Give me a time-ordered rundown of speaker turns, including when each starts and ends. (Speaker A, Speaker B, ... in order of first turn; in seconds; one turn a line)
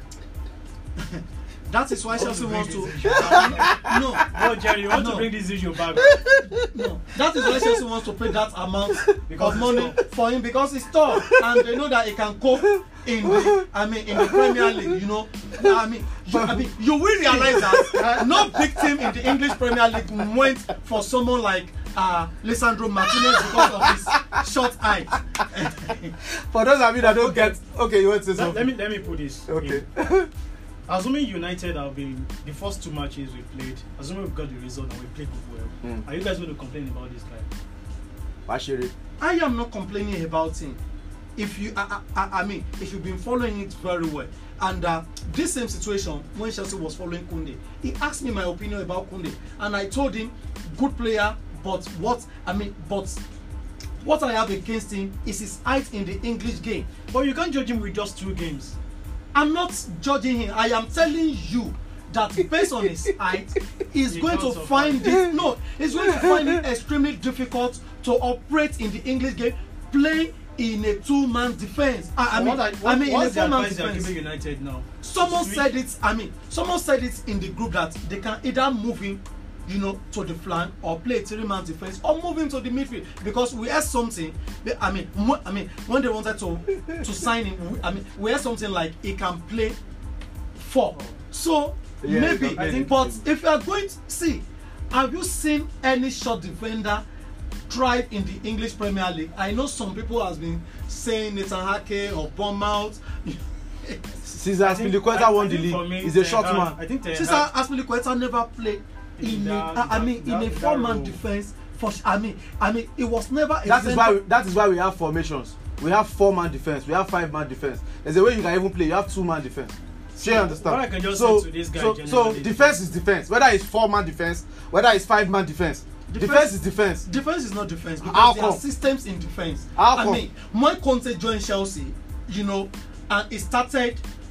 Speaker A: 1.0-4.3
Speaker B: 2.1-3.8
Speaker C: 3.3-4.5
Speaker B: 4.3-6.2
Speaker A: 4.9-5.3
Speaker C: 6.0-6.7
Speaker A: 6.7-26.1
Speaker B: 9.3-10.0
Speaker C: 11.1-11.5
Speaker C: 13.2-13.6
Speaker C: 14.1-14.9
Speaker C: 16.3-16.6
Speaker C: 17.2-19.7
Speaker C: 23.2-24.4
Speaker C: 26.3-28.7
Speaker B: 27.2-27.5
Speaker B: 28.3-29.9
Speaker C: 29.5-30.3
Speaker B: 30.9-37.5
Speaker C: 38.5-38.9
Speaker A: 39.2-40.8
Speaker A: 41.4-53.2
Speaker A: 54.0-56.9
Speaker B: 57.1-58.8
Speaker A: 59.3-74.1
Speaker B: 64.1-65.4
Speaker C: 66.1-66.5
Speaker B: 72.3-75.7
Speaker A: 75.0-89.8
Speaker A: 90.6-97.0
Speaker B: 90.9-91.2
Speaker C: 92.0-93.2
Speaker B: 92.4-93.1
Speaker A: 97.7-104.2
Speaker C: 104.3-106.8
Speaker B: 104.6-107.5
Speaker A: 107.1-114.2
Speaker B: 109.2-111.2
Speaker C: 113.7-127.0
Speaker B: 120.2-122.8
Speaker A: 126.1-134.0
Speaker C: 128.0-128.6
Speaker C: 129.8-130.2